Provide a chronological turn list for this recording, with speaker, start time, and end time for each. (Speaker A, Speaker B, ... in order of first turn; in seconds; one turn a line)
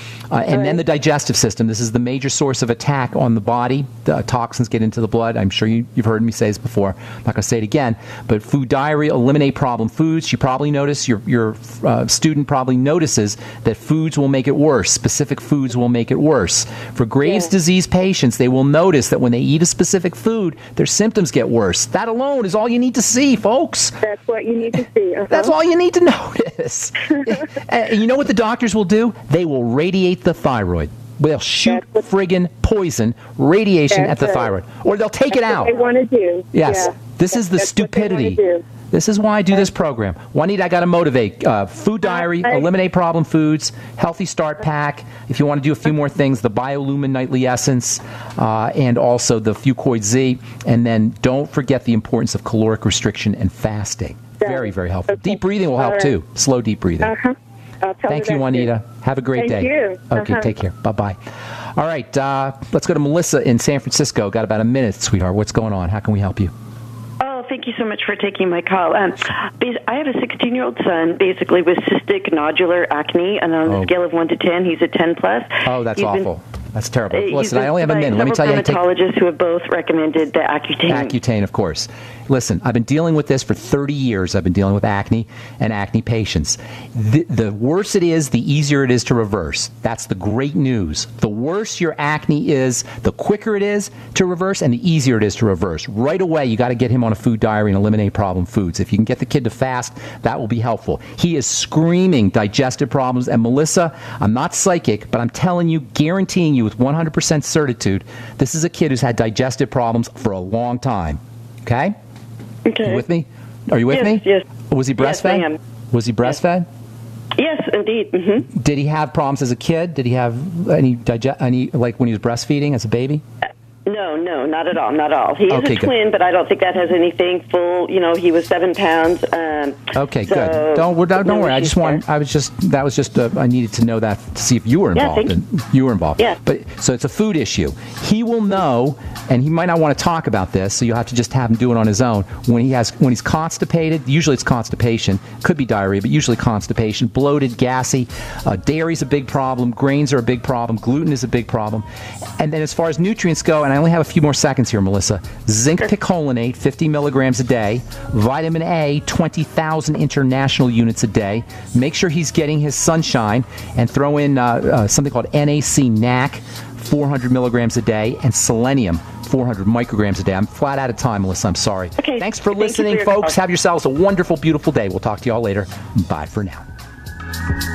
Speaker A: 0.3-23.9
Speaker B: 0.5-0.8
Speaker B: 17.2-17.5
Speaker B: 24.0-25.5
Speaker A: 25.3-35.8
Speaker B: 27.1-27.5
Speaker B: 31.7-32.1
Speaker B: 33.9-34.5
Speaker B: 35.3-38.6
Speaker A: 36.5-57.1
Speaker B: 42.0-42.7
Speaker B: 54.4-56.1
Speaker B: 57.0-58.7
Speaker A: 58.1-61.2
Speaker B: 59.4-60.5
Speaker A: 61.8-66.5
Speaker C: 67.2-76.3
Speaker A: 73.7-73.9
Speaker A: 75.6-78.8
Speaker C: 77.1-81.1
Speaker A: 80.9-112.0
Speaker C: 112.7-113.0
Speaker A: 112.8-116.7
Speaker C: 113.9-114.4
Speaker C: 115.0-115.6
Speaker C: 117.4-118.5
Speaker A: 118.5-123.2
Speaker C: 123.9-132.0
Speaker A: 125.5-125.9
Speaker A: 129.9-151.9
Speaker C: 134.9-135.3
Speaker A: 152.4-176.7
Speaker C: 172.0-173.3